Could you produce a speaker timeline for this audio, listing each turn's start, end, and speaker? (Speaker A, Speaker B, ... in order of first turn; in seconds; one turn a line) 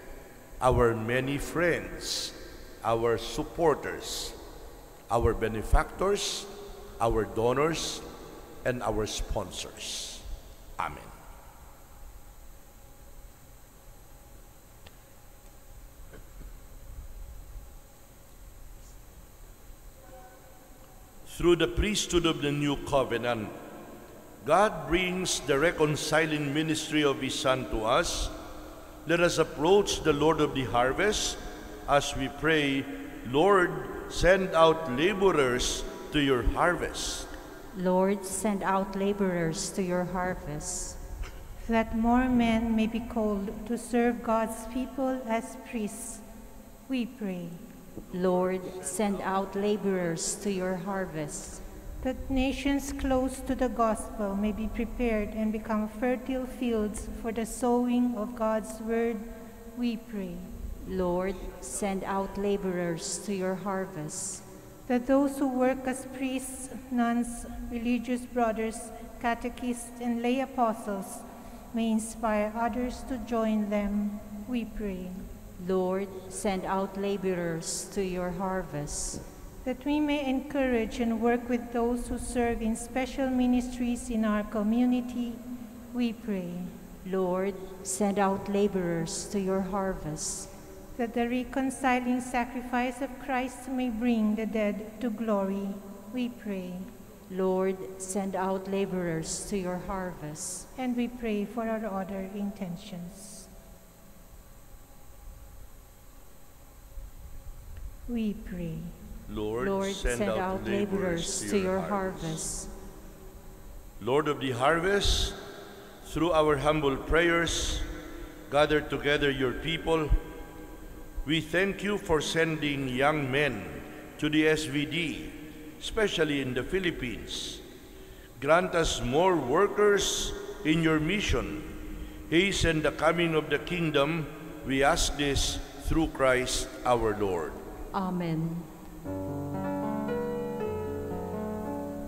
Speaker A: 0.6-4.4
Speaker A: 5.1-8.0
Speaker A: 8.6-10.2
Speaker A: 10.8-11.1
Speaker A: 21.2-23.5
Speaker A: 24.4-28.3
Speaker A: 29.0-37.3
Speaker B: 37.7-41.0
Speaker C: 41.6-46.2
Speaker C: 46.9-47.6
Speaker B: 48.1-51.6
Speaker C: 52.0-60.5
Speaker B: 60.8-64.4
Speaker C: 64.9-75.2
Speaker B: 75.6-79.2
Speaker C: 79.6-86.7
Speaker B: 87.0-90.5
Speaker C: 91.0-96.9
Speaker B: 97.3-100.7
Speaker C: 100.8-103.5
Speaker C: 108.1-108.9
Speaker A: 109.3-112.4
Speaker B: 109.6-112.7
Speaker A: 114.0-115.4
Speaker A: 116.0-117.9
Speaker A: 118.5-120.2
Speaker A: 121.2-127.6
Speaker A: 128.4-131.7
Speaker A: 132.3-137.6
Speaker B: 137.9-138.7